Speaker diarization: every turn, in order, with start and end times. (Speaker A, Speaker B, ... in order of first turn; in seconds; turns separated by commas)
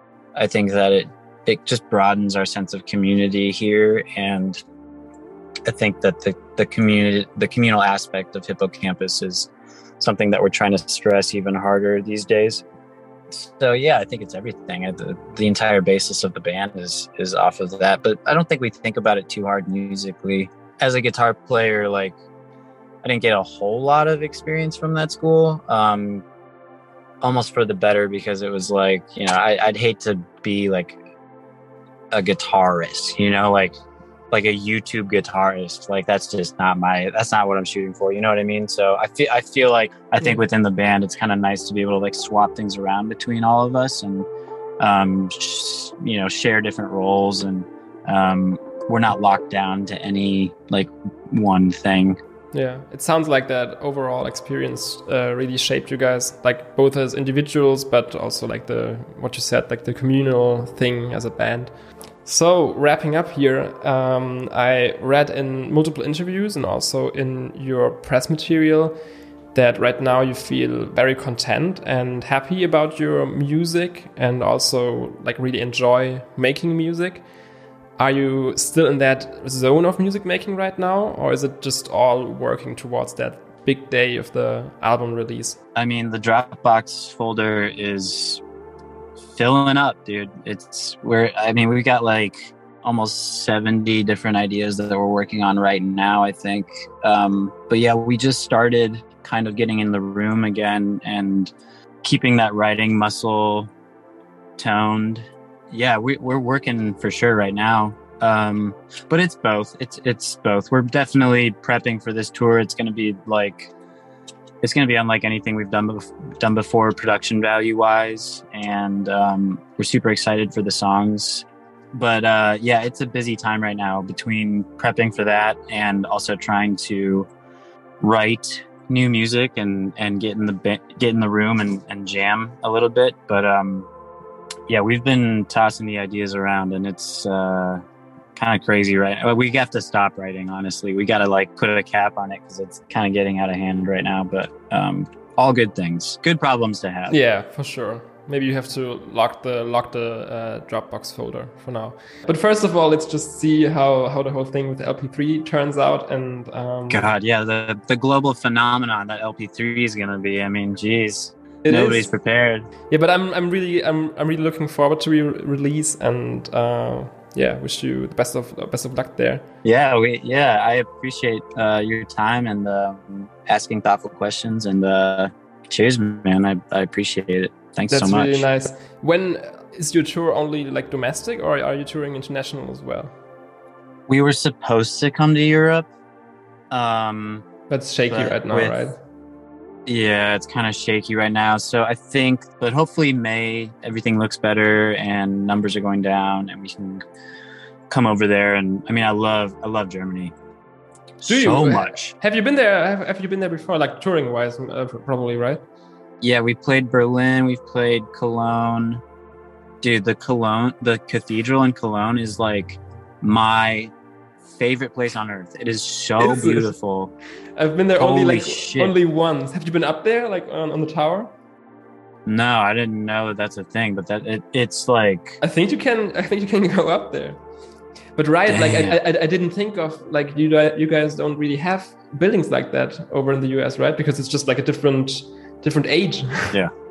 Speaker A: 0.4-4.6, Speaker A: 5.7-12.6, Speaker A: 13.3-22.1, Speaker A: 23.0-26.2, Speaker A: 27.2-31.0, Speaker A: 32.1-33.7, Speaker A: 34.3-44.3, Speaker A: 44.8-52.2, Speaker B: 52.5-61.7, Speaker B: 62.2-69.0, Speaker B: 69.5-77.2, Speaker B: 78.0-85.6, Speaker A: 85.8-88.4, Speaker A: 89.3-103.7, Speaker A: 104.6-113.7, Speaker A: 114.6-127.3, Speaker A: 128.0-133.9, Speaker A: 134.7-137.8, Speaker A: 138.4-147.2, Speaker B: 147.1-157.1, Speaker A: 156.9-162.7, Speaker B: 161.7-162.1, Speaker B: 162.9-169.4, Speaker A: 169.6-178.4, Speaker B: 177.9-183.1, Speaker A: 184.1-185.9, Speaker A: 186.7-187.4, Speaker B: 187.7-188.9, Speaker A: 188.1-188.8, Speaker A: 189.9-197.0, Speaker A: 197.9-200.3, Speaker A: 201.2-202.1, Speaker B: 201.2-205.6, Speaker A: 206.2-209.0, Speaker A: 209.8-213.9, Speaker A: 214.5-217.1, Speaker B: 216.2-216.7, Speaker B: 217.6-221.3, Speaker A: 217.9-219.0, Speaker A: 222.3-225.4, Speaker B: 225.4-227.4, Speaker B: 228.2-236.6, Speaker A: 228.5-229.0